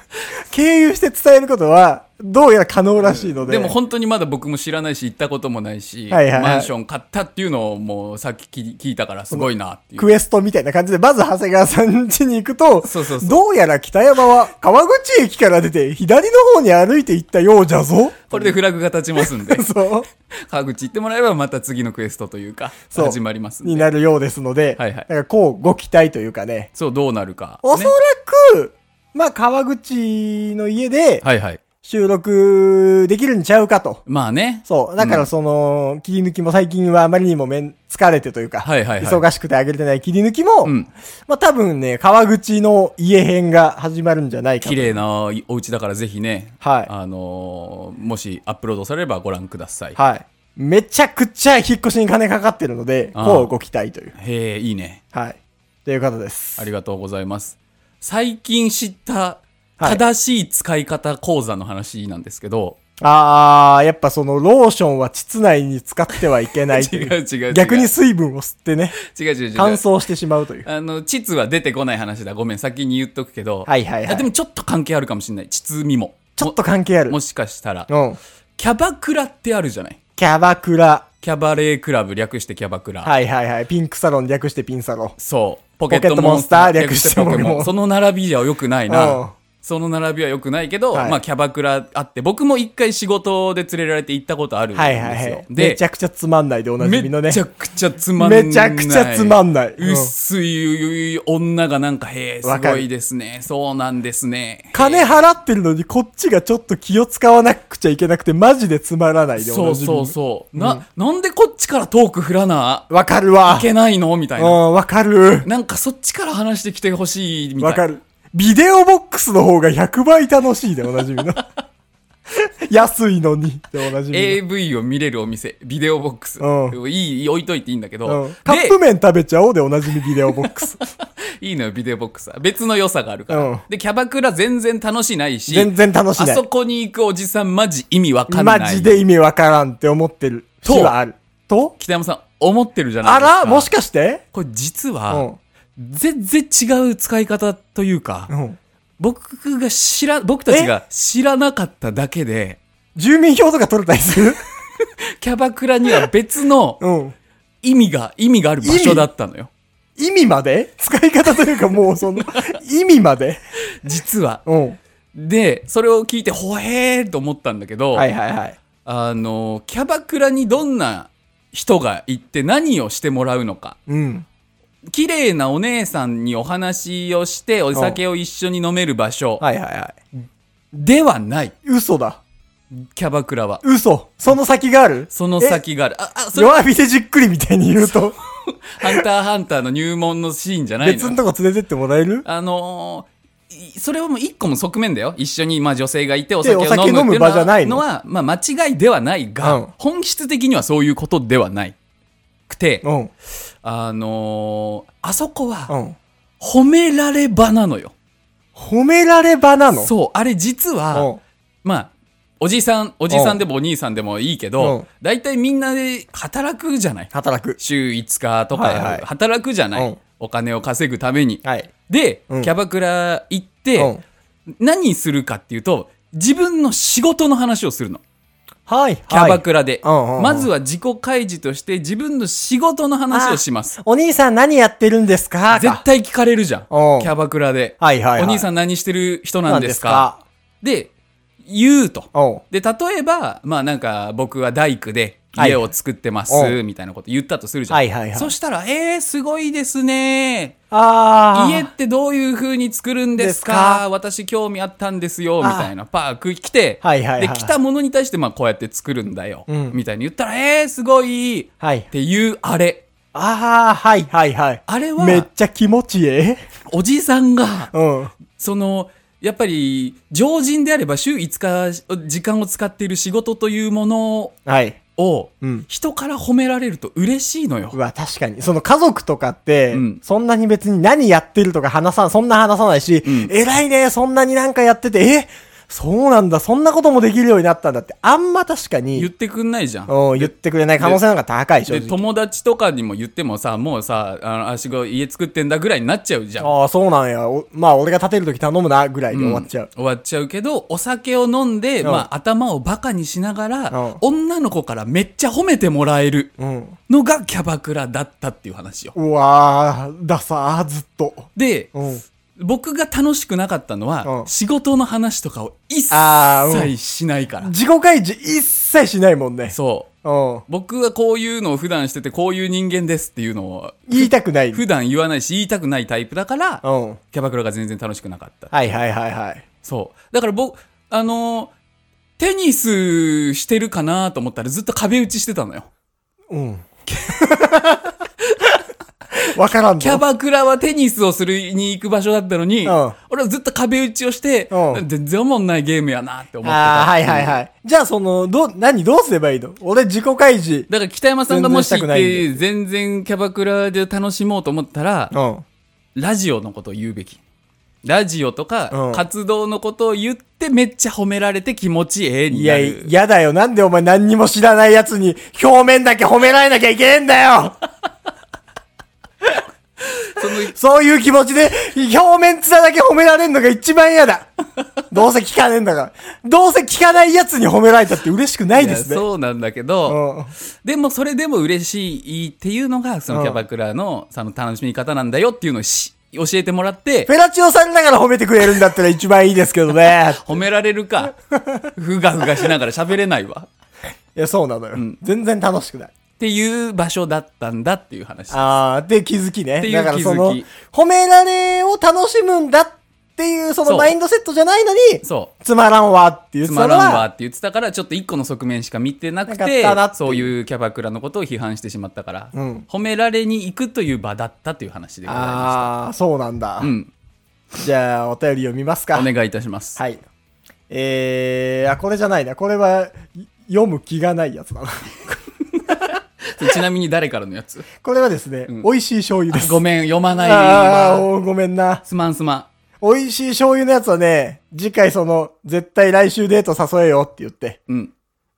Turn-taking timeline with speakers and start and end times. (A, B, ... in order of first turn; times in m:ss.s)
0:00.5-0:03.7 A
0:03.0-0:10.1 B
0:06.1-0:06.7 A
0:09.3-0:18.6 A
0:12.8-0:13.4 B
0:18.3-0:19.7 B
0:19.2-0:20.1 A
0:20.3-0:23.9 B
0:22.9-0:26.7 A
0:24.8-0:25.1 B
0:26.7-0:27.9 B
0:27.6-0:31.2 A
0:31.2-0:31.6 B
0:31.8-0:34.0 A
0:34.0-0:35.3 B
0:34.6-0:40.7 A
0:38.6-0:39.2 B
0:40.6-0:40.9 B
0:41.3-0:45.0 A
0:44.6-0:50.0 B
0:46.6-0:46.9 A
0:50.0-0:54.1 A
0:53.1-0:53.5 B
0:54.1-0:55.0 B
0:55.1-0:56.7 A
0:56.6-1:02.8 B
1:03.0-1:09.0 A
1:06.7-1:07.9 B
1:09.0-1:09.8 B
1:09.6-1:10.7 A
1:10.6-1:16.6 B
1:13.6-1:14.3 A
1:16.4-1:17.2 A
1:17.1-1:17.9 B
1:17.9-1:18.2 A
1:18.6-1:20.0 B
1:20.2-1:21.0 A
1:21.2-1:23.1 B
1:23.0-1:25.2 A
1:25.2-1:35.8 B
1:25.9-1:27.7 A
1:28.9-1:29.3 A
1:30.9-1:31.2 A
1:34.7-1:37.4 A
1:36.8-1:45.2 B
1:38.2-1:40.1 A
1:42.4-1:42.8 A
1:44.7-1:50.8 A
1:49.4-1:52.9 B
1:52.9-1:53.7 A
1:53.4-1:54.6 B
1:54.4-1:55.5 A
1:55.4-1:57.8 B
1:57.6-2:01.4 A
2:02.7-2:04.4 A
2:04.1-2:08.8 B
2:06.4-2:06.8 A
2:08.0-2:10.8 A
2:10.0-2:19.0 B
2:13.3-2:13.6 A
2:15.5-2:16.4 A
2:18.3-2:21.7 A
2:20.6-2:20.9 B
2:21.8-2:23.7 B
2:23.0-2:24.2 A
2:24.3-2:28.3 B
2:25.1-2:25.4 A
2:28.3-2:28.6 A
2:29.0-2:32.6 B
2:32.9-2:34.4 A
2:34.8-2:36.8 B
2:36.8-2:37.1 A
2:37.6-2:39.5 B
2:38.6-2:39.1 A
2:40.0-2:43.4 A
2:43.8-2:44.4 B
2:44.4-2:44.8 A
2:45.1-2:48.1 B
2:47.9-2:48.6 A
2:48.8-2:53.8 B
2:53.9-2:54.2 A
2:54.9-2:59.4 B
2:57.7-2:58.0 A
2:59.4-3:00.0 A
3:00.7-3:01.5 B
3:01.6-3:02.2 A
3:02.7-3:03.6 B
3:03.6-3:05.6 A
3:05.1-3:06.6 B
3:06.3-3:08.2 A
3:07.9-3:11.2 B
3:10.8-3:12.2 A
3:12.2-3:21.7 B
3:16.4-3:17.8 A
3:19.4-3:19.7 A
3:22.5-3:22.8 B
3:22.8-3:23.1 A
3:23.6-3:25.7 B
3:25.7-3:26.0 A
3:26.4-3:27.9 B
3:28.6-3:29.9 A
3:29.7-3:31.1 B
3:30.9-3:31.2 A
3:31.6-3:43.9 B
3:33.1-3:33.4 A
3:34.6-3:34.8 A
3:37.1-3:37.6 A
3:38.5-3:39.0 A
3:41.4-3:41.7 A
3:43.8-3:44.0 A
3:44.6-3:48.0 B
3:48.7-3:50.5 A
3:49.1-3:53.8 B
3:53.1-3:55.8 A
3:55.5-4:00.1 B
3:56.7-3:57.1 A
3:57.8-3:58.4 A
3:59.4-4:00.2 A
4:00.6-4:00.9 B
4:01.4-4:10.6 B
4:02.1-4:02.4 A
4:05.4-4:05.6 A
4:06.3-4:06.6 A
4:07.7-4:08.3 A
4:10.7-4:11.7 A
4:11.3-4:22.8 B
4:13.2-4:13.8 A
4:15.4-4:15.7 A
4:16.8-4:17.5 A
4:19.5-4:19.8 A
4:21.6-4:21.9 A
4:23.1-4:26.4 A
4:24.7-4:25.3 B
4:26.7-4:27.7 B
4:27.7-4:28.1 A
4:28.3-4:34.3 B
4:34.4-4:34.8 A
4:35.0-4:37.8 B
4:37.7-4:49.1 A
4:39.7-4:40.0 B
4:43.0-4:43.3 B
4:48.9-4:51.0 B
4:49.9-4:52.0 A
4:51.7-4:56.5 B
4:56.4-4:59.7 A
4:59.1-5:06.3 B
5:03.7-5:04.0 A
5:06.4-5:06.8 A
5:06.9-5:08.9 B
5:08.9-5:12.0 A
5:11.4-5:11.7 B
5:12.4-5:17.5 B
5:15.9-5:16.7 A
5:17.4-5:20.4 A
5:19.5-5:19.9 B
5:20.5-5:28.5 B
5:23.9-5:24.6 A
5:26.6-5:27.0 A
5:28.5-5:29.4 A
5:29.6-5:31.5 B
5:32.2-5:35.7 B
5:36.3-5:37.9 A
5:36.9-5:37.5 B
5:38.2-5:38.5 B
5:39.3-5:40.0 A
5:39.8-5:47.4 B
5:42.6-5:43.0 A
5:44.5-5:44.8 A
5:46.4-5:50.7 A
5:50.7-5:55.1 B
5:51.3-5:52.4 A
5:55.1-5:55.4 A
5:55.9-5:57.2 B
5:57.8-6:02.9 B
5:58.7-5:59.0 A
6:02.3-6:07.6 A
6:10.2-6:10.5 B
6:10.2-6:14.3 A
6:14.9-6:19.0 A
6:18.5-6:20.0 B
6:19.8-6:20.3 A
6:20.6-6:27.1 B
6:23.1-6:23.4 A
6:27.1-6:30.2 A
6:30.2-6:31.1 B
6:31.4-6:31.7 A
6:31.8-6:33.5 B
6:34.2-6:35.9 A
6:36.2-6:38.4 B
6:38.3-6:47.0 A
6:39.6-6:40.4 B
6:43.6-6:44.0 B
6:45.0-6:45.3 B
6:46.4-6:55.7 B
6:49.3-6:50.3 A
6:52.3-6:52.6 A
6:55.0-6:56.7 A
6:56.6-6:56.9 B
6:57.6-6:59.1 A
6:58.9-6:59.8 B
6:59.8-7:00.0 A
7:00.7-7:05.1 A
7:05.6-7:07.6 B
7:07.8-7:09.6 A
7:09.3-7:11.1 B
7:10.2-7:11.8 A
7:11.8-7:12.5 B
7:12.8-7:17.6 A